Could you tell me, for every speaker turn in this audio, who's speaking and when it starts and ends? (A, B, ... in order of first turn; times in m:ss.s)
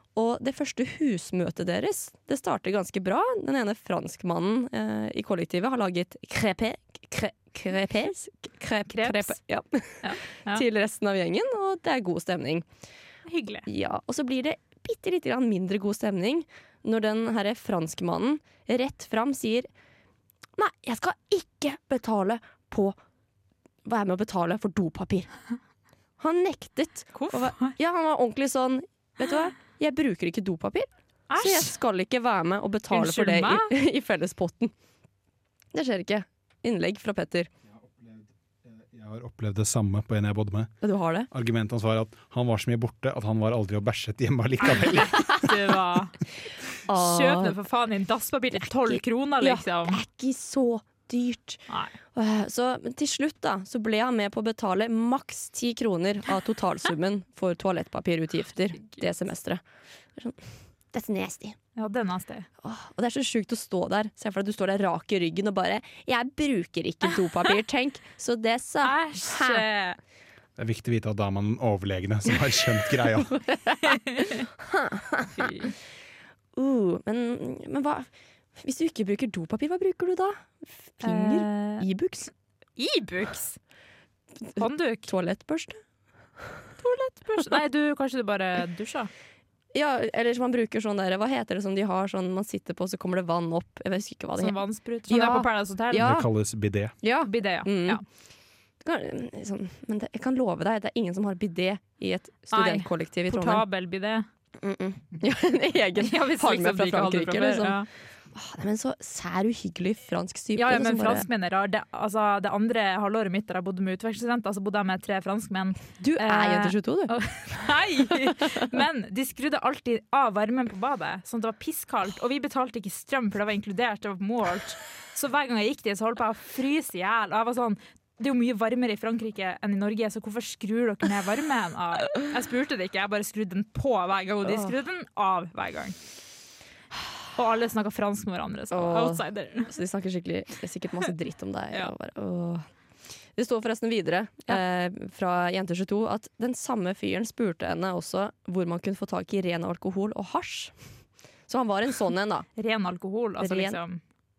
0:00.1-0:12.6 A
0:08.9-0:09.3 B
0:10.0-0:10.6 B
0:13.3-0:13.7 B
0:13.7-0:19.7 A
0:20.6-0:23.0 A
0:23.8-0:25.3 A
0:26.2-0:34.7 A
0:27.1-0:27.7 B
0:31.3-0:31.8 B
0:32.9-0:33.7 B
0:35.7-0:37.5 A
0:37.7-0:40.7 C
0:40.8-0:41.3 A
0:41.3-0:45.5 C
0:44.6-0:46.1 B
0:46.8-0:47.6 A
0:46.9-0:50.0 B
0:48.7-0:51.6 A
0:51.7-0:51.9 B
0:52.1-0:59.6 A
0:58.8-0:59.0 B
1:00.9-1:01.6 A
1:01.8-1:02.5 B
1:02.6-1:09.6 A
1:08.8-1:10.0 B
1:10.6-1:13.3 C
1:13.5-1:13.8 A
1:14.2-1:14.4 B
1:14.6-1:15.5 A
1:15.4-1:15.7 B
1:16.6-1:22.3 A
1:21.0-1:21.8 B
1:22.8-1:23.6 B
1:24.5-1:25.8 A
1:24.6-1:25.1 B
1:26.8-1:29.1 B
1:29.7-1:36.3 A
1:34.4-1:36.1 B
1:36.0-1:36.9 C
1:37.0-1:38.0 A
1:37.2-1:38.0 B
1:38.8-1:43.6 A
1:42.5-1:44.2 B
1:44.6-1:51.2 A
1:46.0-1:47.9 B
1:50.5-2:16.0 B
1:56.0-1:57.1 A
2:14.4-2:14.7 A
2:17.3-2:19.7 B
2:18.7-2:22.6 A
2:23.4-2:30.7 A
2:31.5-2:32.5 A
2:32.6-2:34.0 B
2:33.4-2:33.8 A